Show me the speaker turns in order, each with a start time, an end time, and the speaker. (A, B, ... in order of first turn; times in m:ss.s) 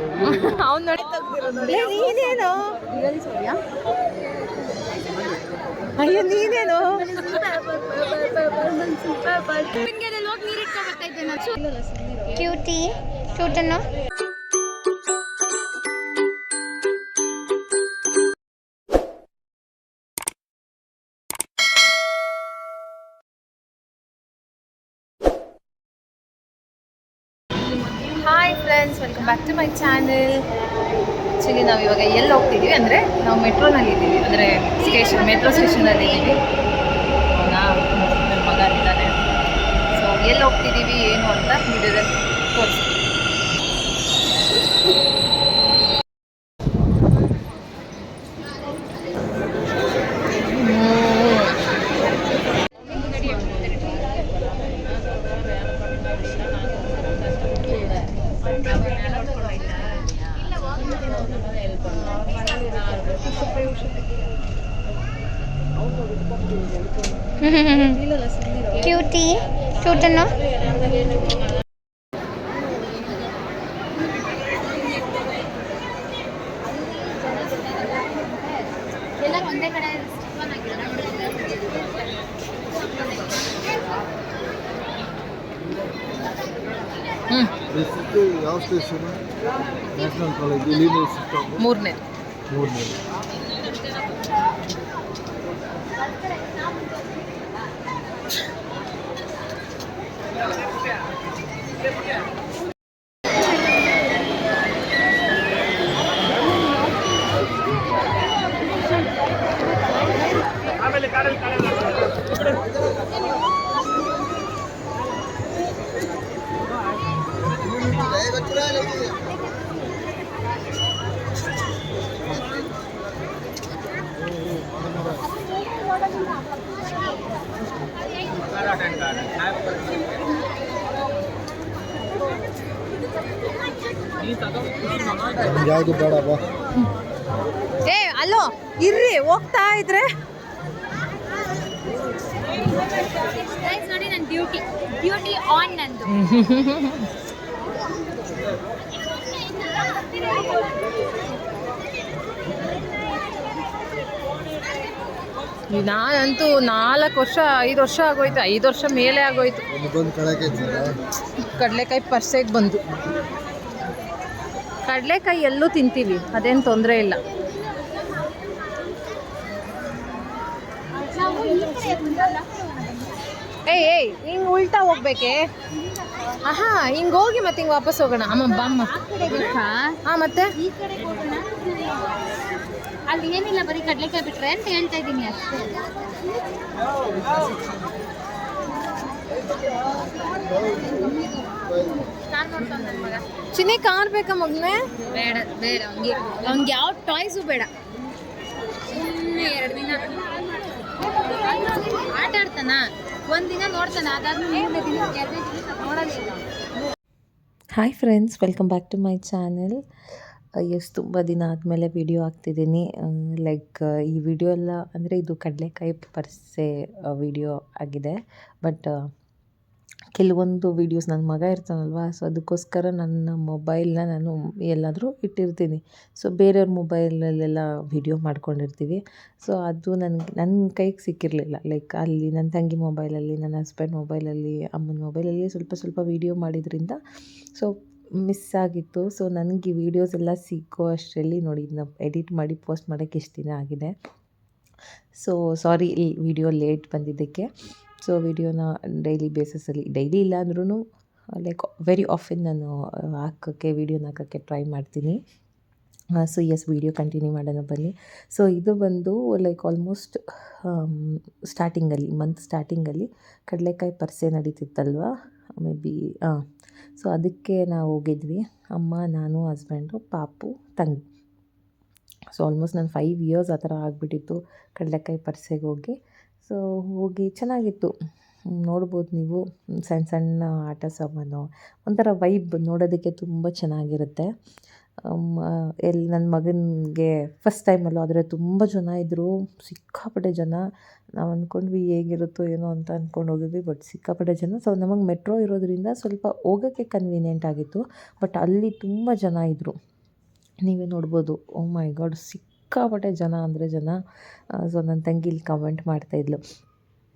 0:00.2-0:02.8 A
0:01.2-0:01.8 B
0:02.9-0:03.6 B
0:06.0-0:07.4 A
0:07.2-0:11.8 B
0:12.3-0:13.9 C
0:28.2-0:30.4 A
0:31.4-0:36.4 A
0:37.3-0:39.1 A
0:39.9-0:42.8 A
0:50.5-0:51.6 A
1:07.4-1:08.0 C
1:08.7-1:10.4 C
1:17.2-1:18.6 B
1:19.2-1:21.9 B
1:27.7-1:29.2 D
1:30.0-1:31.5 D
1:31.6-1:32.0 A
1:32.5-1:32.9 D
2:15.6-2:16.4 D
2:17.8-2:20.1 A
2:23.4-2:26.1 B
2:26.1-2:27.1 A
2:30.3-2:30.6 B
2:35.7-2:39.6 A
2:39.9-2:40.9 D
2:41.4-2:42.8 A
2:44.8-2:47.2 A
2:51.0-2:53.1 B
2:53.7-2:55.4 A
2:56.4-2:58.9 A
2:58.4-3:00.0 B
3:00.0-3:00.5 A
3:00.5-3:02.1 B
3:03.1-3:05.8 B
3:12.3-3:13.2 B
3:13.5-3:14.8 A
3:15.1-3:17.7 B
3:18.9-3:20.2 B
3:21.2-3:26.4 B
3:27.8-3:29.8 E
3:30.6-3:39.0 E
3:40.2-3:57.0 E
3:58.2-4:03.9 E
4:05.2-4:07.5 E
4:08.0-4:15.2 E
4:16.2-4:26.4 E
4:27.0-4:31.0 E
4:32.3-4:37.9 E
4:38.5-4:44.3 E
4:45.0-4:50.6 E
4:51.2-4:59.7 E
5:00.6-5:04.0 E
5:04.6-5:06.4 E